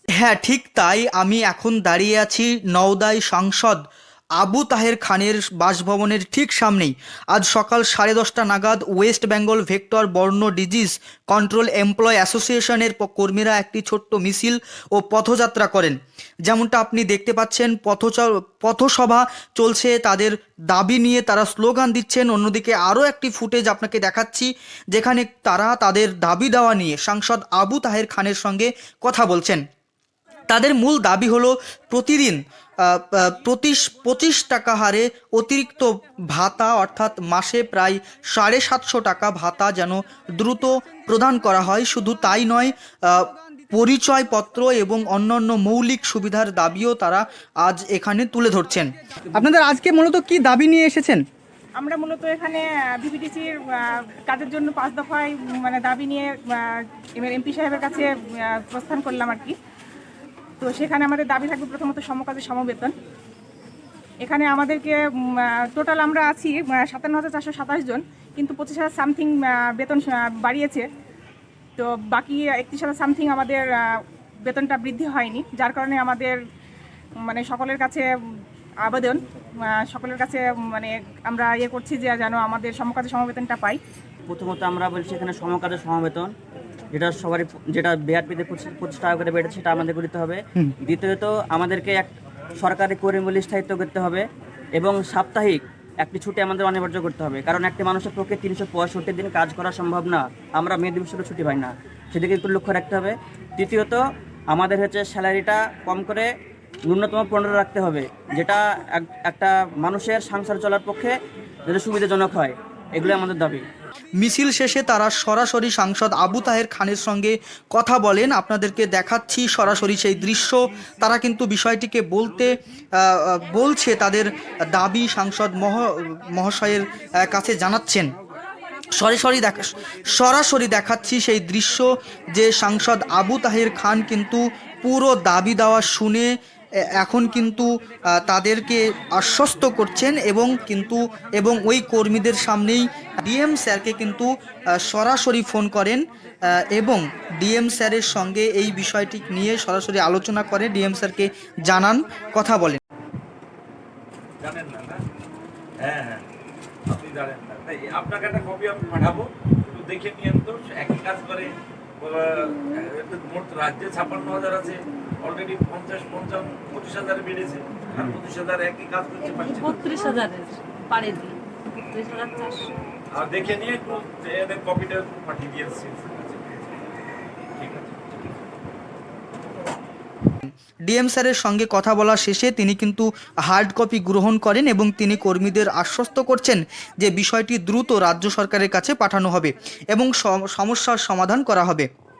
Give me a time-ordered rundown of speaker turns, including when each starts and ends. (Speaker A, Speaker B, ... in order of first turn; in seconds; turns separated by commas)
Speaker A: 0.2-3.8, Speaker A: 4.4-15.9, Speaker A: 16.5-29.6, Speaker A: 30.5-51.2, Speaker B: 51.8-56.3, Speaker B: 56.8-58.1, Speaker B: 58.6-59.5, Speaker B: 60.6-62.9, Speaker B: 64.2-70.8, Speaker B: 71.8-73.8, Speaker B: 74.5-76.3, Speaker B: 77.3-78.0, Speaker B: 78.9-79.2, Speaker B: 79.8-83.8, Speaker C: 84.3-86.4, Speaker C: 86.9-113.7, Speaker A: 114.2-128.1, Speaker A: 129.0-136.3, Speaker A: 137.0-152.8, Speaker D: 154.4-155.0, Speaker D: 155.8-156.3, Speaker D: 156.9-161.5, Speaker D: 162.0-170.2, Speaker E: 169.6-172.7, Speaker D: 173.2-176.8, Speaker D: 177.6-178.5, Speaker A: 180.4-191.9